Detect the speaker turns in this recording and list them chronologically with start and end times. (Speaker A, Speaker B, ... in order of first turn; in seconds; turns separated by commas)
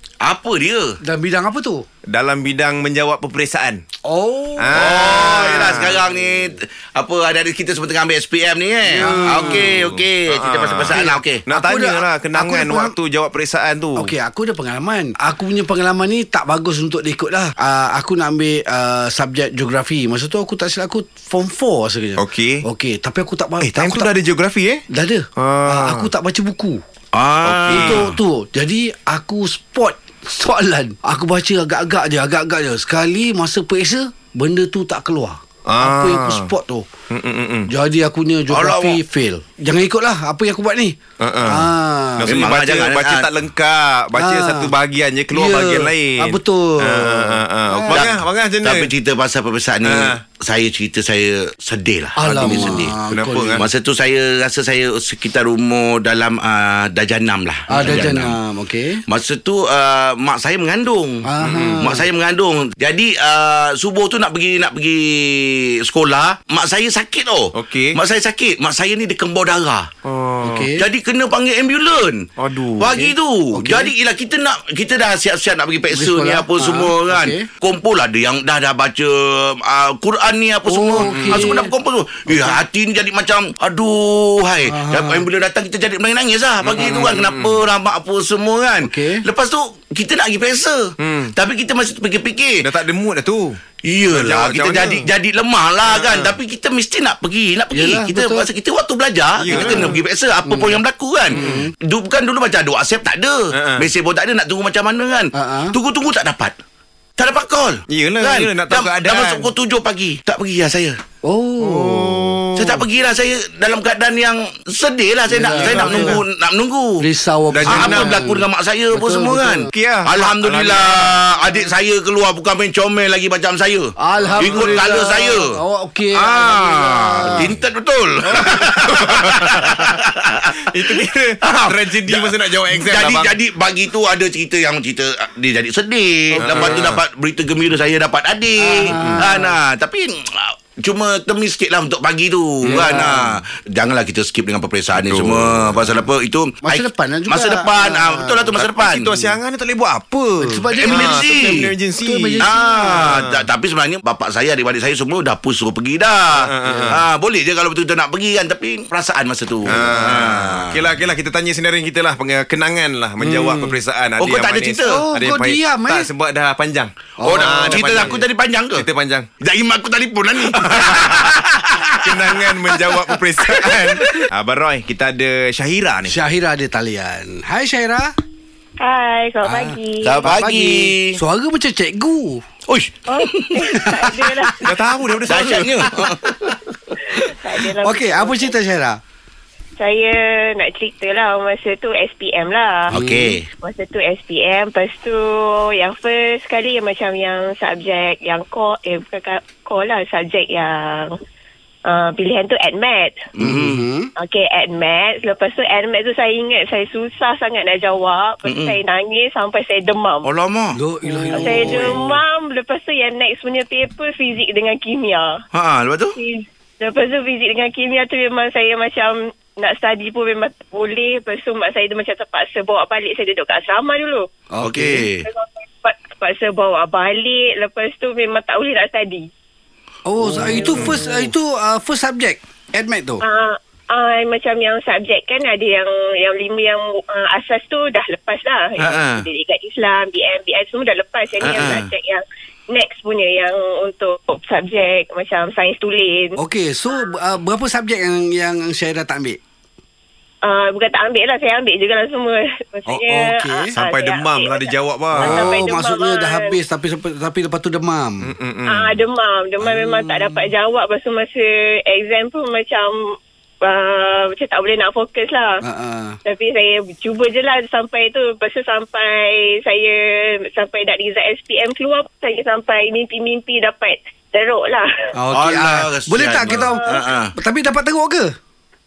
Speaker A: 0.2-1.0, Speaker B: 1.0-1.9, Speaker C: 2.1-3.8, Speaker B: 4.0-4.8, Speaker C: 4.6-6.0, Speaker A: 4.7-11.5, Speaker B: 8.9-9.7, Speaker C: 8.9-14.1, Speaker B: 10.9-12.9, Speaker B: 13.9-24.1, Speaker C: 22.2-22.6, Speaker C: 23.6-24.8, Speaker B: 24.9-26.8, Speaker C: 25.4-26.1, Speaker A: 27.1-28.0, Speaker C: 27.4-28.2, Speaker B: 27.7-36.9, Speaker C: 35.7-36.5, Speaker C: 37.1-37.7, Speaker B: 37.7-42.4, Speaker A: 38.5-39.0, Speaker C: 41.2-48.9, Speaker A: 42.2-43.3, Speaker B: 44.2-44.7, Speaker B: 45.3-48.1, Speaker A: 47.9-53.0, Speaker C: 49.8-50.2, Speaker B: 52.2-53.7, Speaker C: 52.4-53.7, Speaker A: 53.5-58.3, Speaker B: 57.7-59.0, Speaker A: 59.1-61.2, Speaker B: 61.2-62.0, Speaker C: 61.4-61.9, Speaker A: 61.8-69.9, Speaker C: 67.5-68.0, Speaker C: 70.0-70.7, Speaker B: 70.4-70.8, Speaker A: 70.8-92.7, Speaker C: 72.4-73.0, Speaker B: 72.8-73.9, Speaker B: 75.9-77.5, Speaker B: 80.7-81.7, Speaker C: 81.0-81.5, Speaker B: 82.3-82.6, Speaker B: 84.6-85.3, Speaker C: 86.6-87.6, Speaker B: 86.7-87.2, Speaker B: 88.8-89.2, Speaker C: 91.0-91.3, Speaker C: 92.6-95.1, Speaker A: 93.8-106.5, Speaker C: 95.9-96.3, Speaker B: 97.7-98.5, Speaker C: 99.4-100.0, Speaker B: 99.5-100.0, Speaker B: 100.5-100.8, Speaker B: 101.3-101.7, Speaker C: 101.3-101.7, Speaker C: 103.5-103.9, Speaker B: 105.3-105.8, Speaker A: 107.2-111.0, Speaker C: 107.9-109.5, Speaker B: 111.2-112.4, Speaker C: 111.6-112.8, Speaker A: 112.5-117.0, Speaker B: 115.3-116.2, Speaker C: 115.4-116.2, Speaker B: 117.0-119.7, Speaker C: 117.5-118.3, Speaker A: 117.7-125.5, Speaker C: 119.7-121.2, Speaker B: 124.0-127.5, Speaker C: 124.3-124.9, Speaker A: 126.1-149.3, Speaker C: 128.2-129.9, Speaker C: 130.6-133.4, Speaker C: 136.3-137.0, Speaker B: 136.4-136.8, Speaker B: 138.6-139.6, Speaker C: 138.9-139.3, Speaker C: 142.7-142.9, Speaker B: 142.7-143.4, Speaker C: 144.9-146.0, Speaker B: 146.6-148.7, Speaker C: 148.6-153.4, Speaker B: 150.4-153.2, Speaker A: 150.8-151.7, Speaker A: 152.4-160.9, Speaker C: 156.3-157.0, Speaker B: 156.7-157.0, Speaker C: 159.7-169.3, Speaker B: 163.2-163.8, Speaker A: 164.2-165.0, Speaker B: 164.8-166.1, Speaker B: 167.2-168.2, Speaker A: 167.2-168.9, Speaker A: 169.4-172.7, Speaker C: 170.6-171.3, Speaker C: 172.0-176.2, Speaker B: 176.1-178.1, Speaker D: 178.8-180.3, Speaker B: 179.4-182.4, Speaker A: 180.0-181.2, Speaker A: 182.7-183.8, Speaker D: 183.1-184.7, Speaker B: 183.7-184.5, Speaker C: 184.6-186.0, Speaker A: 185.3-186.6, Speaker D: 187.1-188.6, Speaker B: 187.8-189.0, Speaker D: 189.8-192.9, Speaker A: 192.9-193.4, Speaker B: 192.9-193.4, Speaker D: 193.6-201.2, Speaker D: 201.8-203.3, Speaker A: 203.3-203.8, Speaker B: 203.4-204.1, Speaker D: 204.2-210.3, Speaker A: 208.4-208.8, Speaker A: 210.2-210.8, Speaker B: 210.7-212.2, Speaker D: 211.3-215.4, Speaker A: 215.5-216.2, Speaker D: 216.2-224.3, Speaker B: 224.5-225.1, Speaker A: 224.6-225.2, Speaker D: 225.2-229.3, Speaker B: 230.0-233.2, Speaker C: 230.7-231.0, Speaker D: 233.2-246.4, Speaker A: 238.8-239.2, Speaker A: 241.4-241.9, Speaker B: 246.4-249.4, Speaker D: 250.4-256.5, Speaker B: 252.9-253.7, Speaker C: 253.7-255.4, Speaker B: 255.1-258.3, Speaker C: 258.2-259.0, Speaker D: 258.7-265.6, Speaker B: 259.6-260.5, Speaker B: 265.6-266.2, Speaker D: 266.2-275.1, Speaker B: 275.1-278.3, Speaker A: 275.3-277.3, Speaker D: 276.5-276.8